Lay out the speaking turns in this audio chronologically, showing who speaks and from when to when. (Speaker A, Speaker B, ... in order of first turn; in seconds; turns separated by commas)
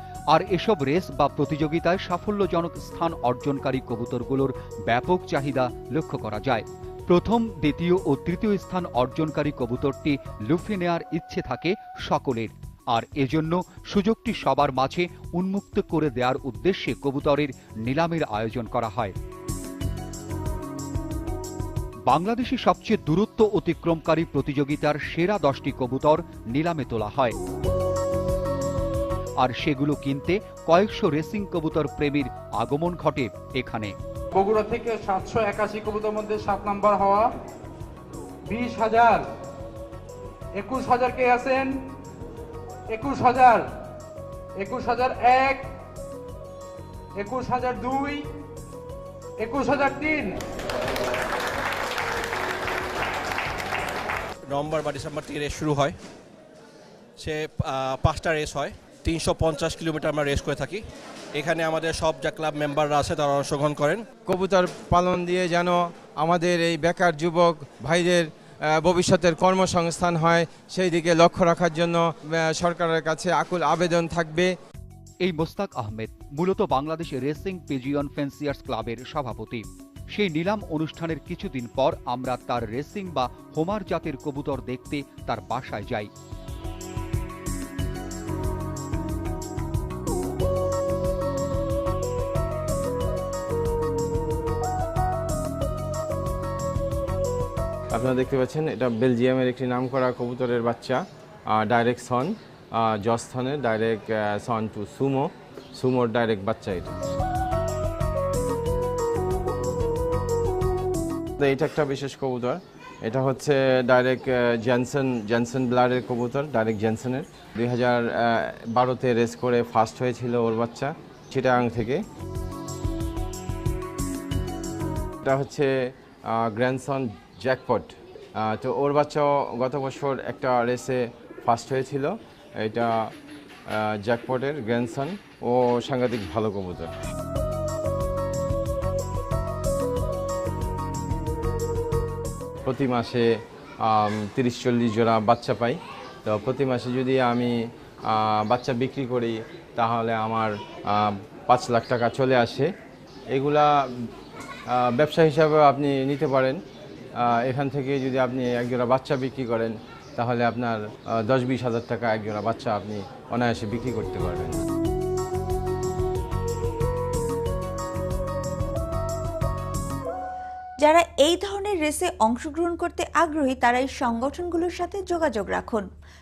Speaker A: 0.3-19.2, Speaker A: 22.1-27.4, Speaker A: 29.4-34.0, Speaker B: 34.3-37.3, Speaker B: 38.5-39.3, Speaker B: 40.6-41.8, Speaker B: 42.9-43.7, Speaker B: 44.6-45.7, Speaker B: 47.2-48.2, Speaker B: 49.4-50.4, Speaker C: 54.5-56.0, Speaker C: 57.2-60.8, Speaker C: 61.4-64.0, Speaker D: 64.3-74.5, Speaker A: 75.2-86.1, Speaker D: 97.9-107.0, Speaker D: 111.4-122.0, Speaker D: 125.2-125.7, Speaker D: 126.3-133.1, Speaker D: 133.7-136.9, Speaker D: 142.7-143.3, Speaker D: 143.8-147.6, Speaker D: 148.1-152.7, Speaker D: 153.3-154.1, Speaker D: 154.7-156.6, Speaker D: 157.2-164.6, Speaker E: 170.8-175.9